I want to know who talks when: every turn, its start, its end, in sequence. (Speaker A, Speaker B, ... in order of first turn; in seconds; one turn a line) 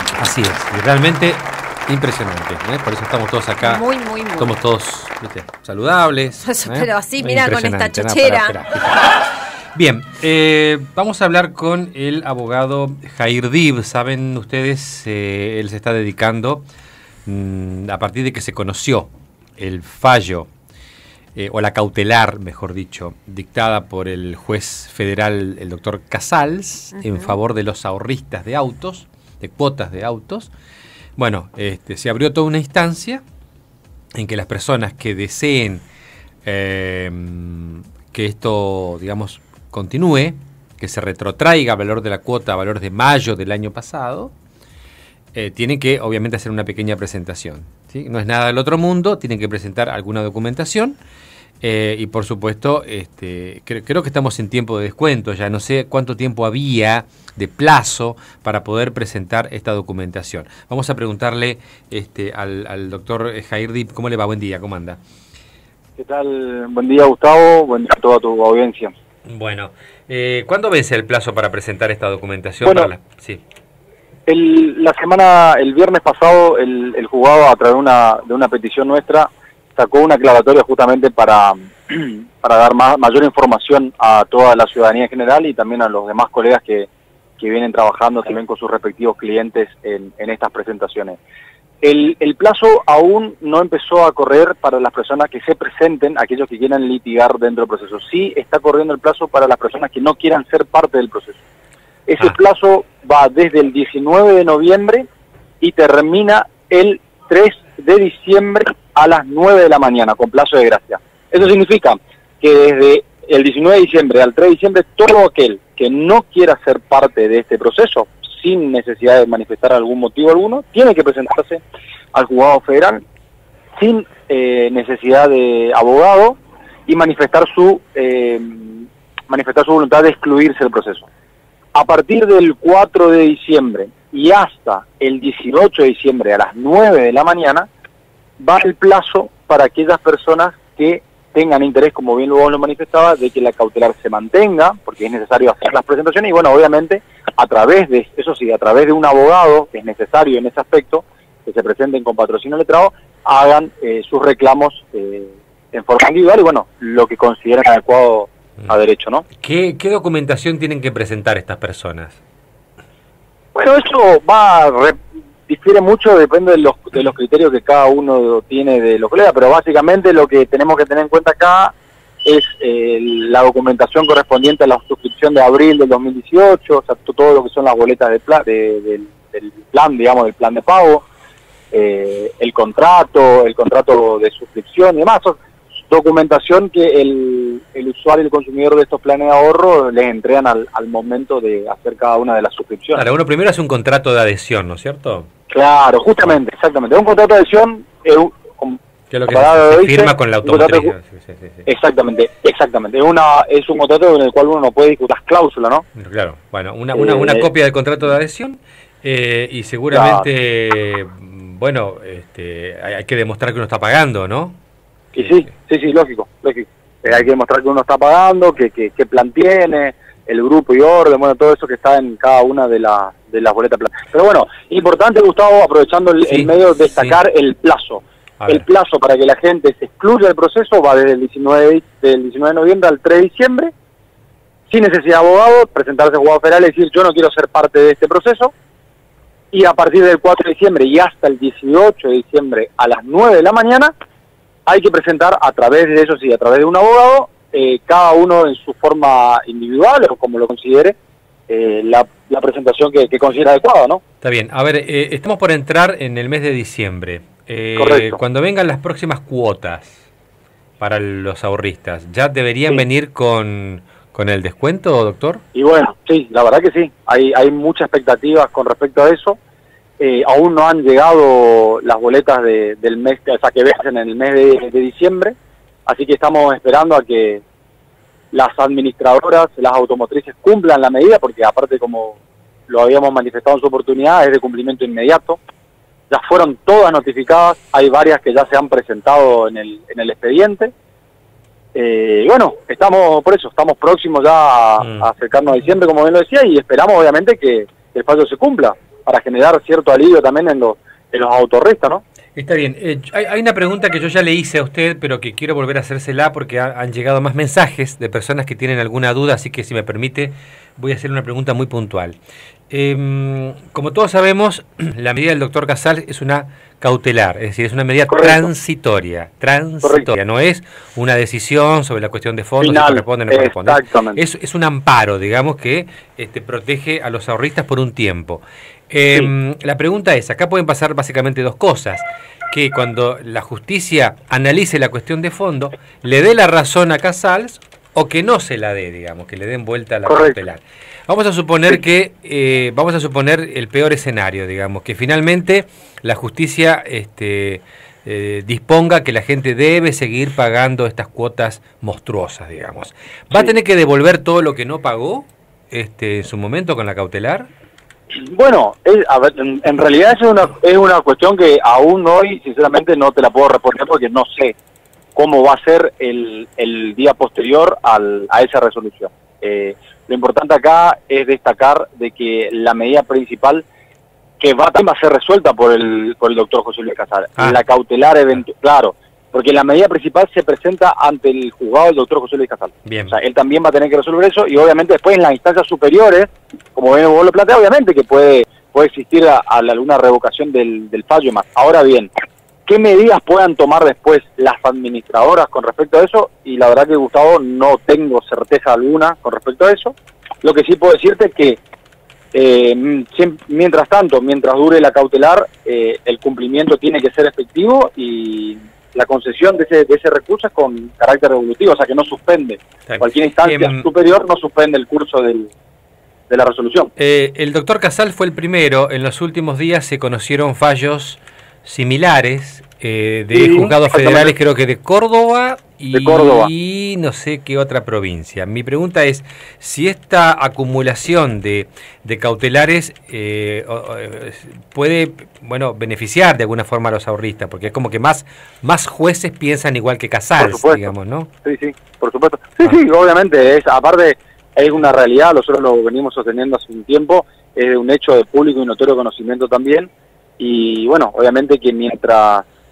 Speaker A: 0.2-3.8
Speaker B: 3.6-4.5
Speaker A: 4.4-16.6
Speaker B: 6.4-8.6
Speaker A: 17.2-20.5
Speaker A: 21.4-30.5
Speaker B: 26.9-27.4
Speaker A: 31.2-33.2
Speaker A: 34.1-35.8
Speaker A: 36.4-44.3
Speaker A: 45.3-51.0
Speaker A: 51.6-65.0
Speaker C: 66.0-68.9
Speaker A: 69.3-73.4
Speaker C: 72.6-72.9
Speaker C: 74.3-86.9
Speaker C: 87.4-91.2
Speaker C: 91.8-101.4
Speaker C: 102.1-105.0
Speaker C: 105.6-121.6
Speaker C: 122.1-123.0
Speaker C: 123.8-131.1
Speaker C: 131.7-137.7
Speaker C: 138.4-159.2
Speaker A: 159.4-162.2
Speaker C: 163.5-165.0
Speaker C: 165.5-171.7
Speaker C: 172.2-181.1
Speaker C: 181.7-193.0
Speaker A: 192.9-195.3
Speaker C: 195.5-200.9
Speaker A: 199.1-201.7
Speaker C: 201.7-205.8
Speaker A: 205.9-214.6
Speaker C: 206.9-207.5
Speaker C: 209.9-210.2
Speaker A: 215.1-215.4
Speaker C: 215.2-233.7
Speaker A: 226.2-227.2
Speaker A: 228.4-228.6
Speaker C: 234.7-238.5
Speaker C: 239.5-243.9
Speaker C: 244.7-250.9
Speaker C: 251.5-254.0
Speaker A: 254.2-260.0
Speaker C: 257.8-258.1
Speaker A: 260.8-265.4
Speaker C: 265.5-269.4
Speaker C: 270.0-275.3
Speaker C: 275.9-277.4
Speaker C: 278.3-282.2
Speaker C: 282.7-285.4
Speaker C: 286.1-290.7
Speaker C: 291.7-302.0
Speaker A: 294.8-295.1
Speaker A: 302.3-312.2
Speaker A: 312.7-357.5
Speaker C: 318.1-318.5
Speaker C: 319.8-320.1
Speaker C: 322.6-324.2
Speaker C: 340.1-340.4
Speaker C: 358.1-364.5
Speaker C: 365.1-373.6
Speaker C: 374.4-392.1
Speaker A: 382.8-383.1
Speaker C: 392.7-401.6
Speaker C: 402.3-415.5
Speaker A: 412.9-413.9
Speaker C: 416.3-416.9
Speaker A: 417.0-441.3
Speaker C: 423.3-424.4
Speaker C: 425.9-426.5
Speaker C: 440.4-440.9
Speaker C: 441.4-452.4